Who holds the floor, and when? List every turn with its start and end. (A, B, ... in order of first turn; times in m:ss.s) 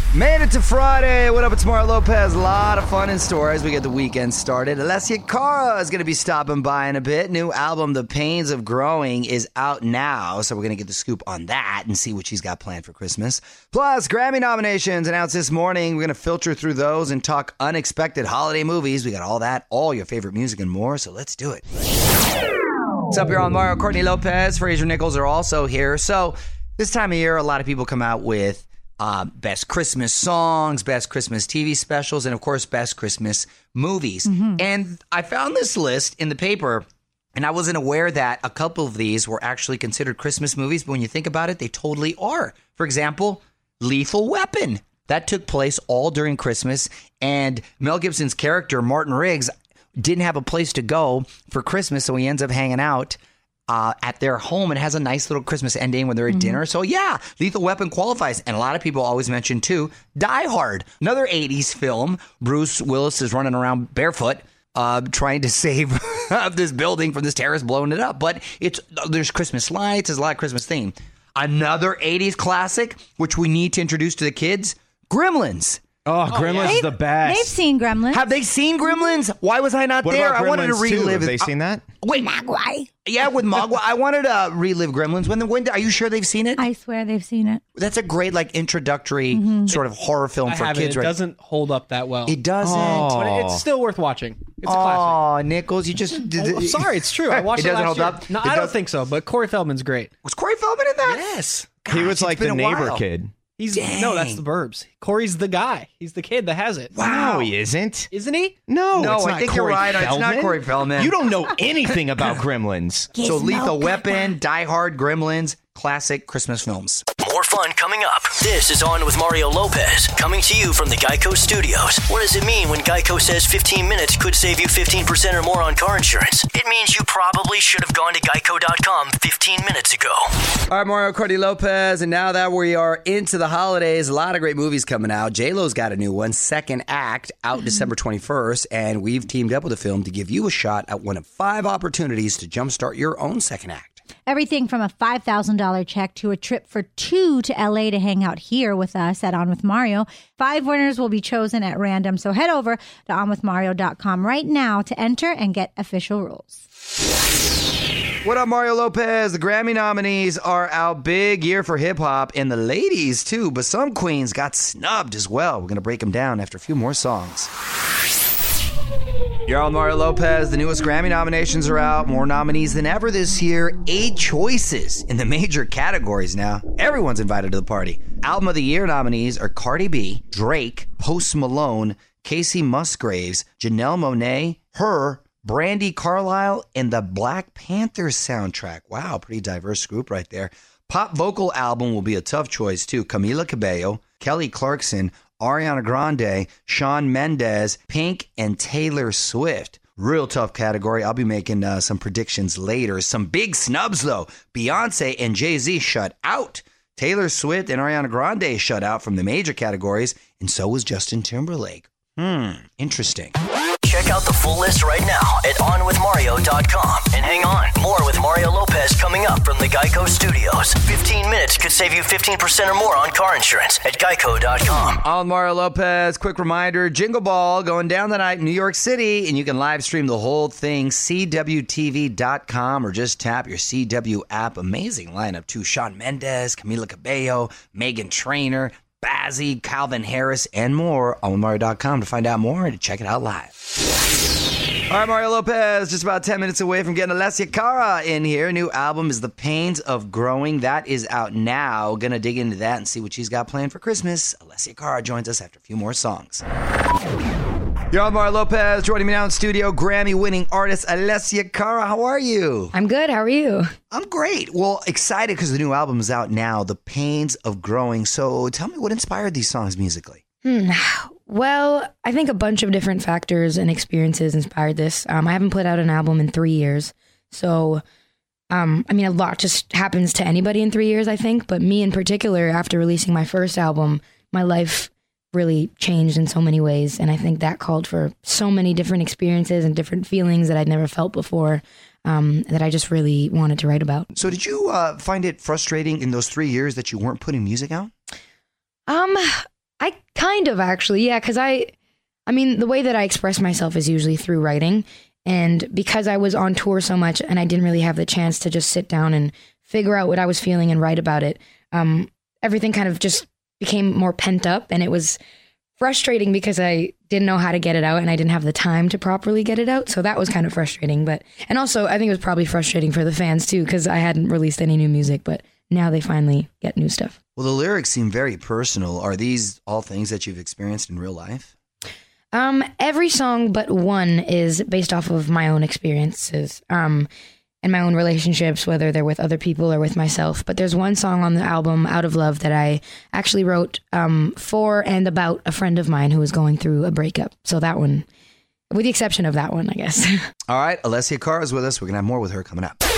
0:00.1-0:21.6 A
0:23.1-0:53.2 A
0:34.2-0:34.6 B
0:53.7-1:15.8 A
1:16.0-1:17.5 C
1:16.3-1:17.0 D
1:16.6-1:18.3 B
1:18.1-1:22.3 A
1:20.0-1:21.8 C
1:22.1-1:22.9 B
1:23.0-1:26.6 A
1:26.6-1:27.6 B
1:27.8-1:31.2 A
1:29.3-1:29.7 B
1:30.4-1:35.2 D
1:32.2-1:33.1 A
1:32.6-1:33.6 C
1:34.6-1:38.8 A
1:36.4-1:40.1 D
1:40.2-1:43.0 A
1:41.9-1:43.3 C
1:43.5-1:46.9 D
1:43.7-1:44.4 A
1:46.9-1:47.5 A
1:47.0-1:48.1 C
1:48.1-1:48.6 D
1:48.7-1:53.1 C
1:49.0-1:51.1 A
1:53.2-1:54.3 B
1:53.2-1:57.0 A
1:57.2-2:10.3 E
2:10.7-2:24.0 A
2:24.3-2:36.6 B
2:38.2-2:47.5 A
2:49.5-3:33.3 A
3:33.8-3:45.0 E
3:45.0-4:03.5 A
4:04.9-4:16.4 A
4:17.9-4:22.7 A
4:22.7-4:23.7 F
4:23.9-4:30.2 A
4:30.4-4:37.8 F
4:38.5-4:54.1 F
4:54.1-4:57.9 A
4:58.9-5:01.7 F
5:02.3-5:15.2 F
5:15.8-5:27.2 F
5:27.4-5:31.5 A
5:32.3-5:37.1 F
5:37.6-5:48.0 F
5:48.7-5:50.1 F
5:50.5-5:52.8 A